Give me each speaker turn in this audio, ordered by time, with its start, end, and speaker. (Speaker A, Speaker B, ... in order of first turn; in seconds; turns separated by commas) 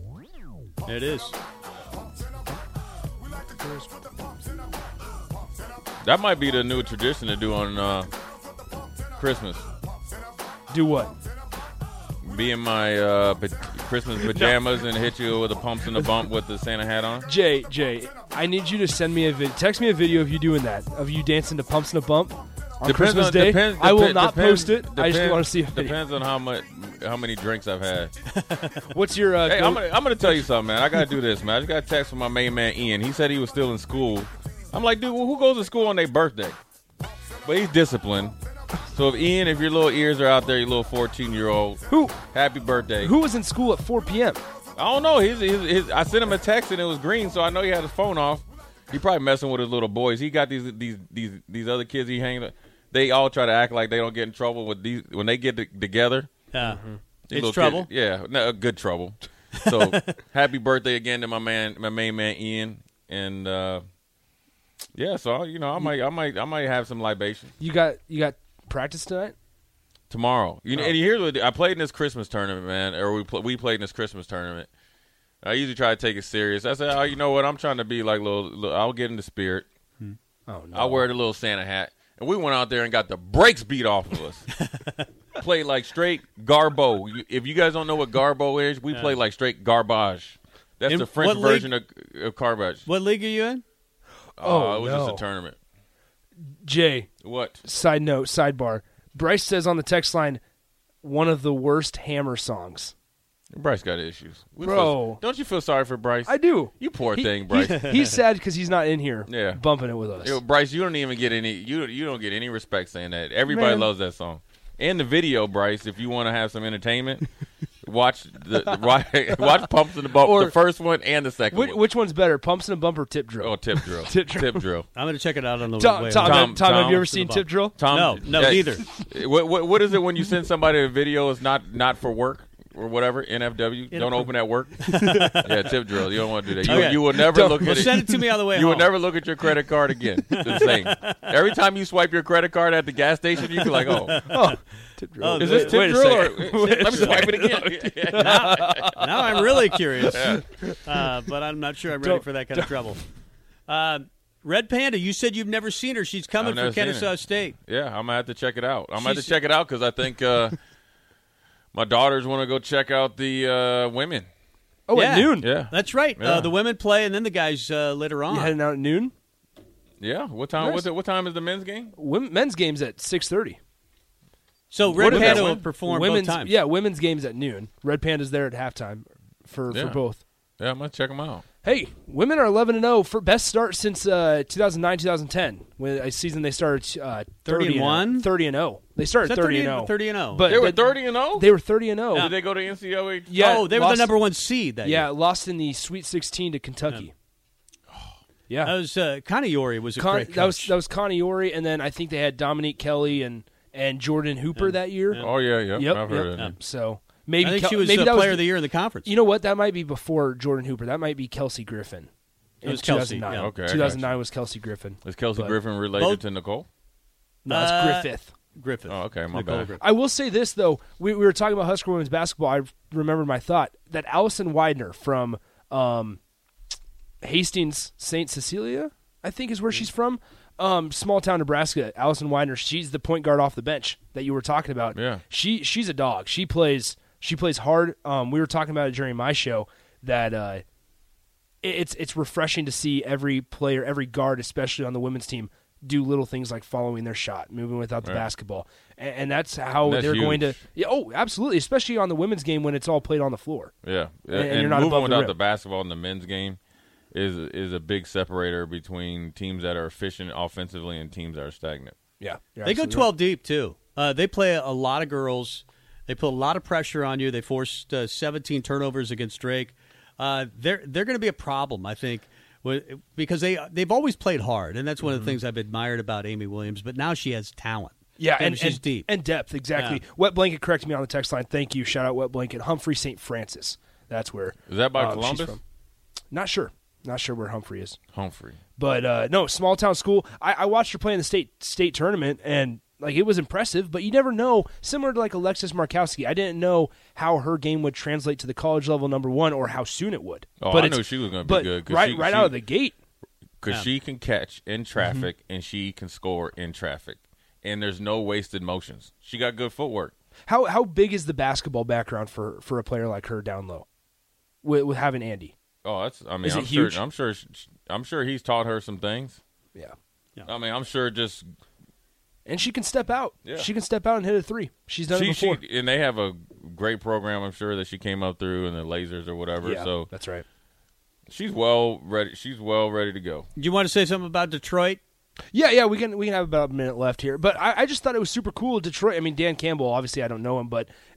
Speaker A: 0.8-1.4, Speaker B: 6.0-8.1, Speaker B: 9.2-9.7, Speaker C: 10.7-11.1, Speaker B: 12.2-17.3, Speaker C: 14.2-14.6, Speaker C: 17.2-26.0, Speaker B: 22.8-28.1, Speaker A: 28.4-28.8, Speaker C: 28.9-30.5, Speaker B: 29.4-36.5, Speaker B: 37.4-38.3, Speaker B: 38.9-43.1, Speaker C: 41.9-42.1, Speaker C: 43.0-44.4, Speaker B: 44.8-56.3, Speaker A: 56.5-56.8, Speaker C: 56.6-57.0, Speaker B: 57.3-63.8, Speaker A: 57.3-57.9, Speaker A: 59.7-60.1, Speaker B: 64.9-67.5, Speaker C: 67.6-69.3, Speaker B: 70.1-74.7, Speaker B: 75.4-79.7, Speaker C: 80.5-81.1, Speaker B: 80.7-84.5, Speaker B: 85.4-92.9, Speaker A: 88.9-89.2, Speaker A: 90.9-91.7, Speaker A: 92.8-93.6, Speaker B: 94.4-95.6, Speaker C: 94.4-95.2, Speaker C: 96.6-97.1, Speaker B: 97.2-97.6, Speaker C: 97.6-100.4, Speaker C: 101.0-102.9, Speaker B: 103.5-108.2, Speaker C: 104.6-105.2, Speaker C: 106.2-110.4, Speaker B: 109.3-109.6, Speaker B: 110.2-117.2, Speaker C: 113.5-113.9, Speaker B: 117.8-121.8, Speaker C: 120.2-120.5, Speaker C: 121.5-124.7, Speaker B: 123.4-124.9, Speaker A: 124.9-126.6, Speaker C: 125.8-127.8, Speaker B: 126.2-144.2, Speaker A: 127.1-128.8, Speaker A: 133.9-134.3, Speaker A: 134.8-135.5, Speaker C: 136.6-138.2, Speaker A: 136.7-138.9, Speaker A: 140.3-141.2, Speaker A: 143.7-144.5, Speaker C: 144.2-150.8, Speaker A: 145.2-147.3, Speaker B: 145.4-149.3, Speaker A: 148.2-153.0, Speaker B: 150.0-150.4, Speaker C: 152.0-152.7, Speaker A: 153.7-157.6, Speaker B: 156.4-160.6, Speaker A: 159.0-159.3, Speaker B: 161.7-164.3, Speaker C: 164.9-165.5, Speaker A: 164.9-168.6, Speaker B: 165.4-166.5, Speaker C: 168.3-169.1, Speaker B: 170.0-171.9, Speaker C: 170.6-170.9, Speaker C: 171.9-173.6, Speaker A: 174.7-176.5, Speaker B: 174.8-175.7, Speaker C: 175.0-180.2, Speaker B: 179.7-180.0, Speaker B: 180.6-181.4, Speaker C: 181.6-192.3, Speaker A: 187.4-188.3, Speaker A: 189.2-190.6, Speaker B: 190.4-191.5, Speaker B: 192.1-193.3, Speaker C: 193.3-194.1, Speaker A: 193.3-195.1, Speaker C: 194.8-197.1, Speaker C: 198.5-198.7, Speaker A: 198.6-200.7, Speaker C: 199.9-208.4, Speaker A: 204.6-205.3, Speaker B: 205.1-206.5, Speaker A: 207.4-209.1, Speaker C: 209.0-212.1, Speaker C: 212.6-215.6, Speaker A: 212.6-213.5, Speaker B: 213.3-214.1, Speaker B: 215.0-216.7, Speaker A: 216.0-216.2, Speaker C: 217.4-218.3, Speaker A: 217.5-219.8, Speaker B: 218.9-219.7, Speaker C: 219.8-226.2, Speaker C: 227.2-240.6, Speaker B: 234.9-235.2, Speaker C: 241.6-253.7, Speaker B: 248.0-248.3, Speaker B: 249.8-250.6, Speaker B: 253.8-256.6, Speaker C: 254.3-255.3, Speaker B: 257.1-261.9, Speaker C: 262.2-263.1, Speaker A: 262.6-279.1, Speaker C: 278.2-285.6, Speaker A: 279.8-280.0, Speaker B: 284.7-285.6, Speaker C: 286.3-288.0, Speaker B: 288.1-288.6, Speaker C: 288.8-302.9, Speaker B: 300.6-302.5, Speaker B: 303.6-310.1, Speaker C: 305.0-305.3, Speaker C: 310.4-313.9, Speaker C: 314.6-315.5, Speaker B: 315.8-319.4, Speaker C: 316.4-317.0, Speaker B: 320.4-321.4, Speaker C: 322.4-325.6, Speaker B: 325.1-330.1, Speaker C: 329.6-330.4, Speaker B: 331.3-333.5, Speaker A: 333.6-335.0, Speaker C: 335.5-340.9